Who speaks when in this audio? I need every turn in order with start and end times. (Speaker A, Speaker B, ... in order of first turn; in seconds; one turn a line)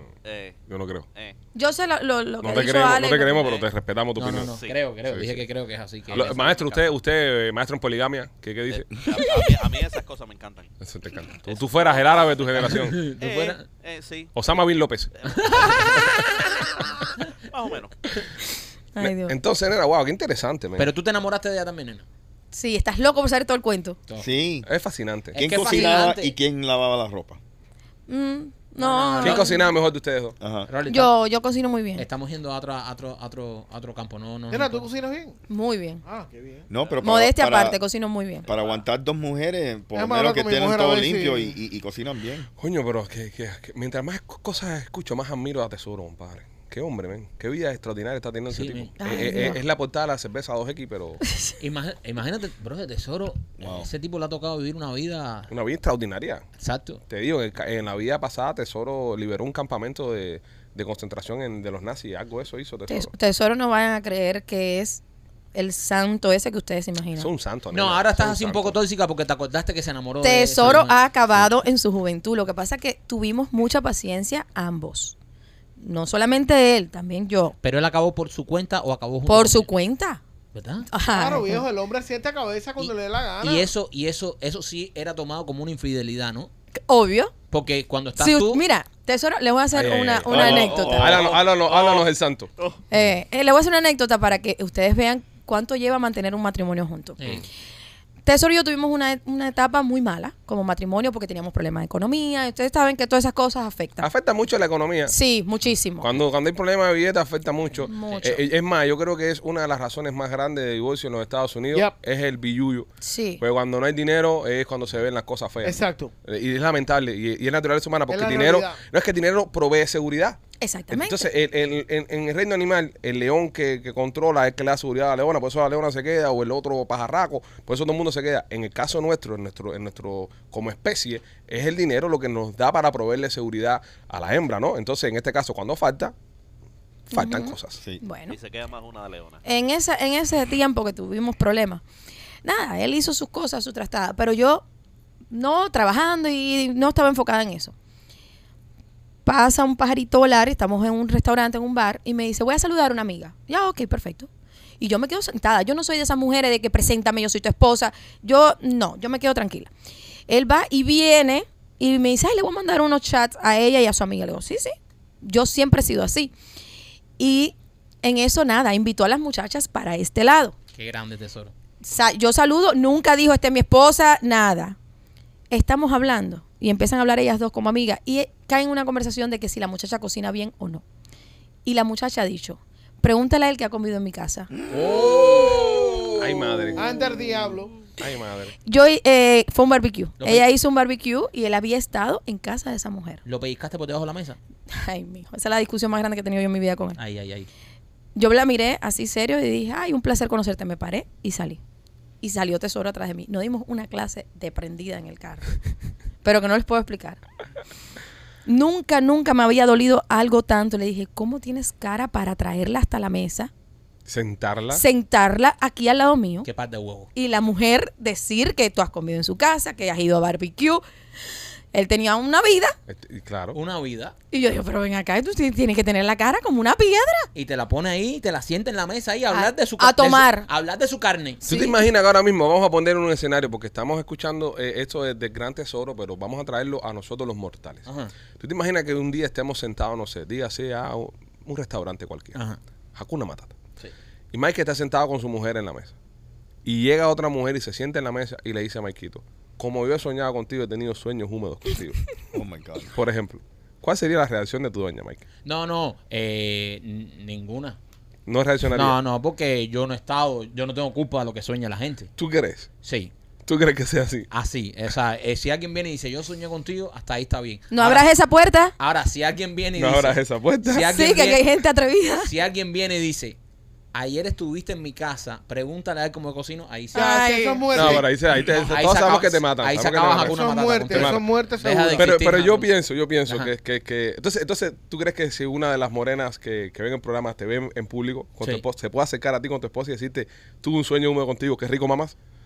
Speaker A: 0.2-0.6
Speaker B: 0.7-1.1
Speaker C: 1.5-3.5
Speaker B: 2.4-4.5
Speaker D: 4.2-6.9
Speaker A: 4.4-4.8
Speaker B: 5.1-5.4
Speaker B: 6.1-8.9
Speaker A: 8.7-10.7
Speaker B: 10.8-13.0
Speaker A: 11.5-14.3
Speaker D: 12.6-13.6
Speaker B: 14.3-15.1
Speaker A: 15.2-16.2
Speaker D: 15.4-16.0
Speaker A: 17.5-17.9
Speaker C: 18.9-19.3
Speaker B: 19.0-20.9
Speaker D: 20.8-22.0
Speaker C: 22.5-24.0
Speaker E: 24.2-24.7
Speaker B: 24.6-25.4
Speaker D: 25.3-26.3
Speaker E: 25.4-27.4
Speaker C: 28.1-29.6
Speaker D: 28.8-29.6
Speaker B: 29.2-30.4
Speaker E: 30.4-30.7
Speaker D: 30.7-31.1
Speaker C: 30.9-32.0
Speaker D: 32.0-34.9
Speaker F: 34.5-35.4
Speaker C: 35.5-36.0
Speaker F: 36.0-36.7
Speaker E: 36.7-37.8
Speaker C: 37.0-38.5
Speaker A: 38.5-38.8
Speaker E: 38.5-42.5
Speaker F: 39.9-41.5
Speaker B: 42.6-51.2
Speaker D: 48.5-49.3
Speaker C: 49.0-49.6
Speaker D: 51.6-55.5
Speaker E: 53.6-53.9
Speaker B: 55.5-56.4
Speaker D: 56.6-57.0
Speaker B: 57.1-63.1
Speaker C: 62.9-65.0
Speaker C: 65.5-67.3
Speaker B: 67.2-68.8
Speaker D: 67.7-70.9
Speaker C: 70.2-75.1
Speaker C: 75.8-77.5
Speaker D: 77.6-79.7
Speaker C: 79.3-80.2
Speaker D: 80.5-80.9
Speaker C: 80.9-81.6
Speaker F: 81.1-83.7
Speaker D: 82.8-86.5
Speaker C: 86.9-87.3
Speaker D: 87.5-88.6
Speaker C: 88.2-91.1
Speaker B: 89.7-92.5
Speaker E: 90.2-91.3
Speaker A: 90.8-92.1
Speaker C: 92.9-97.2
Speaker D: 97.2-97.4
Speaker C: 98.2-104.1
Speaker B: 104.0-105.1
Speaker C: 105.1-106.1
Speaker B: 106.0-112.9
Speaker C: 107.8-108.4
Speaker D: 107.9-108.3
Speaker C: 113.0-113.4
Speaker B: 113.4-120.4
Speaker F: 115.6-116.1
Speaker F: 118.1-118.8
Speaker C: 120.6-121.3
Speaker B: 120.9-136.1
Speaker B: 137.1-137.8
Speaker C: 137.1-138.4
Speaker A: 138.3-139.4
Speaker C: 139.4-141.8
Speaker C: 142.4-144.6
Speaker C: 145.3-147.7
Speaker C: 149.2-154.3
Speaker C: 154.8-159.7
Speaker C: 160.3-166.3
Speaker C: 167.2-170.5
Speaker D: 170.7-171.5
Speaker C: 171.8-174.8
Speaker C: 175.5-180.8
Speaker C: 181.6-184.5
Speaker D: 184.7-186.2
Speaker E: 184.7-185.9
Speaker B: 186.2-186.9
Speaker F: 186.8-187.7
Speaker B: 188.0-188.5
Speaker C: 188.7-193.2
Speaker D: 190.2-190.5
Speaker D: 193.2-194.4
Speaker C: 194.7-197.0
Speaker D: 197.0-197.5
Speaker C: 198.1-201.6
Speaker C: 202.2-205.5
Speaker C: 206.2-207.2
Speaker C: 208.4-213.5
Speaker B: 214.1-214.8
Speaker C: 214.7-216.5
Speaker D: 216.4-217.1
Speaker C: 217.1-220.8
Speaker C: 221.7-222.8
Speaker B: 222.9-223.6
Speaker D: 223.5-224.1
Speaker C: 224.3-227.3
Speaker D: 227.3-231.4
Speaker C: 229.3-230.5
Speaker C: 231.4-231.8
Speaker B: 231.4-237.8
Speaker D: 237.8-238.1
Speaker B: 238.4-242.4
Speaker B: 242.9-243.5
Speaker B: 244.3-245.9
Speaker B: 246.6-252.0
Speaker E: 252.3-252.9
Speaker B: 252.9-255.2
Speaker D: 255.4-257.8
Speaker B: 258.2-259.0
Speaker D: 258.7-262.1
Speaker B: 262.2-262.7
Speaker D: 262.8-263.1
Speaker B: 263.4-264.3
Speaker D: 264.3-268.1
Speaker C: 267.7-268.7
Speaker D: 268.8-271.5
Speaker B: 269.8-270.9
Speaker C: 270.9-272.3
Speaker D: 272.2-273.4
Speaker D: 273.9-277.2
Speaker C: 276.9-277.7
Speaker F: 276.9-278.1
Speaker B: 277.7-281.2
Speaker D: 277.8-282.7
Speaker F: 280.2-282.1
Speaker B: 281.9-292.1
Speaker D: 283.2-283.5